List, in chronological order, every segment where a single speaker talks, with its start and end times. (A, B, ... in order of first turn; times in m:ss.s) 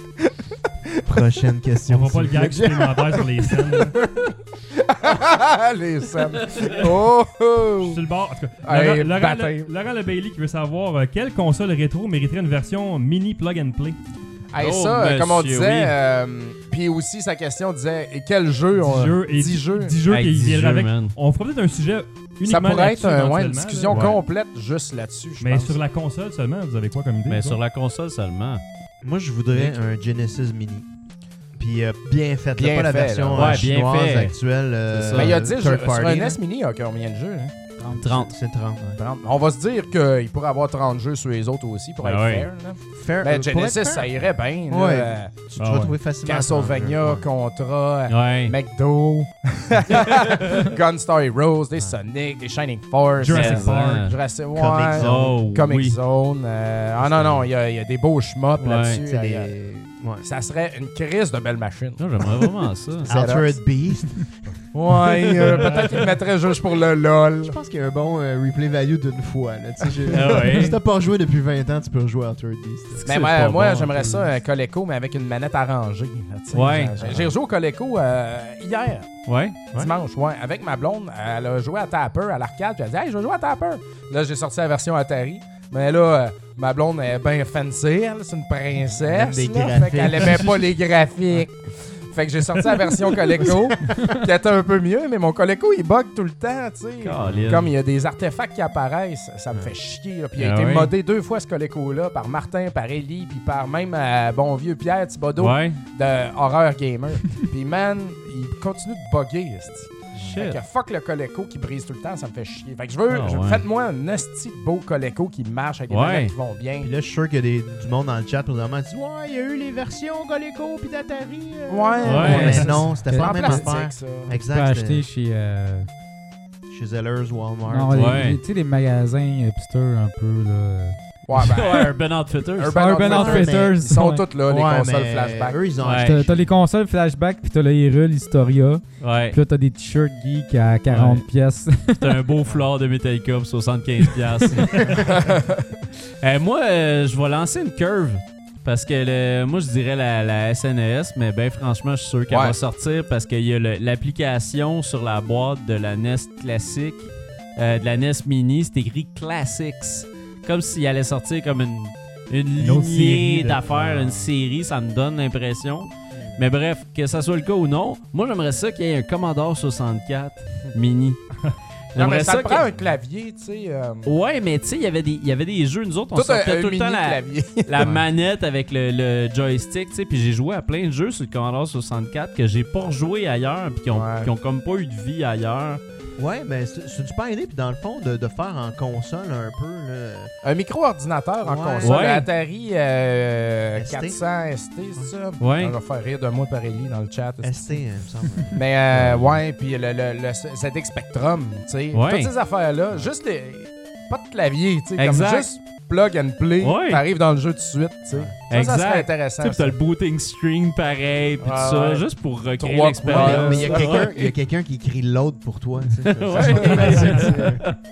0:01.0-0:03.2 A
0:01.9-0:04.0 B
0:04.8-0:08.0 C
0:07.8-0:14.0 B
0:08.6-0:09.7 C
0:14.5-0:20.0 C
0:14.6-0:15.9 D
0:18.8-0:24.1 B
0:20.1-0:21.2 D
0:22.4-0:25.8 C
0:23.9-0:24.2 D
0:25.4-0:27.6 B
0:27.3-0:28.6 D
0:29.0-0:30.8 A
0:29.5-0:29.8 C
0:31.5-0:36.4 A
0:32.5-0:33.6 C
0:33.3-0:34.3 D
0:34.9-0:35.4 D
0:35.1-0:37.5 C
0:37.8-0:39.0 A
0:38.0-0:38.3 D
0:39.0-0:45.3 C
0:42.0-0:42.5 D
0:42.9-0:47.2 A
0:45.6-0:45.9 B
0:46.2-0:59.5 C
0:48.1-0:48.5 D
0:53.2-0:54.1 B
0:53.3-0:54.1 D
0:54.5-0:55.4 A
0:54.9-0:56.0 D
0:57.0-0:57.5 A
0:58.6-0:59.0 D
0:59.0-1:00.2 A
1:00.2-1:02.3 C
1:02.0-1:03.1 D
1:03.0-1:03.6 C
1:03.0-1:04.5 A
1:04.7-1:07.6 C
1:07.4-1:13.0 A
1:10.1-1:10.6 C
1:10.1-1:10.8 D
1:12.9-1:14.3 D
1:13.0-1:56.9 C
1:16.5-1:17.0 D
1:17.0-1:17.3 A
1:19.3-1:19.6 D
1:29.0-1:30.7 A
1:33.4-1:34.1 A
1:37.0-1:37.7 D
1:37.2-1:37.6 A
1:40.4-1:40.9 D
1:45.4-1:45.8 D
1:50.2-1:50.6 D
1:53.1-1:53.6 D
1:55.9-1:56.3 D
1:56.8-2:05.0 A
2:01.7-2:04.3 C
2:02.0-2:02.7 D
2:02.2-2:03.7 E
2:04.3-2:05.9 E
2:06.7-2:08.3 A
2:07.7-2:11.0 E
2:07.9-2:08.4 D
2:11.3-2:12.0 C
2:11.3-2:12.8 D
2:12.5-2:15.6 C
2:12.7-2:14.2 E
2:13.0-2:13.8 A
2:14.4-2:16.5 A
2:15.8-2:16.1 D
2:16.0-2:22.2 E
2:19.0-2:19.4 D
2:20.9-2:21.2 D
2:21.9-2:25.0 D
2:24.9-2:25.6 C
2:26.2-2:51.2 D
2:32.3-2:32.6 C
2:46.1-2:46.4 A
2:51.9-2:52.7 D
2:52.0-2:54.1 C
2:54.0-3:05.8 D
2:56.1-2:58.0 C
3:03.9-3:04.3 C
3:06.2-3:10.3 A
3:10.4-3:17.8 C
3:11.4-3:12.0 A
3:11.8-3:12.3 D
3:13.7-3:14.2 A
3:15.4-3:15.8 D
3:17.4-3:19.4 A
3:18.5-3:29.8 C
3:21.9-3:22.3 D
3:25.0-3:25.5 D
3:26.6-3:27.0 D
3:28.5-3:34.2 D
3:31.4-3:34.3 C
3:33.0-3:37.8 A
3:36.0-3:37.7 D
3:36.3-3:37.5 C
3:36.9-3:37.2 B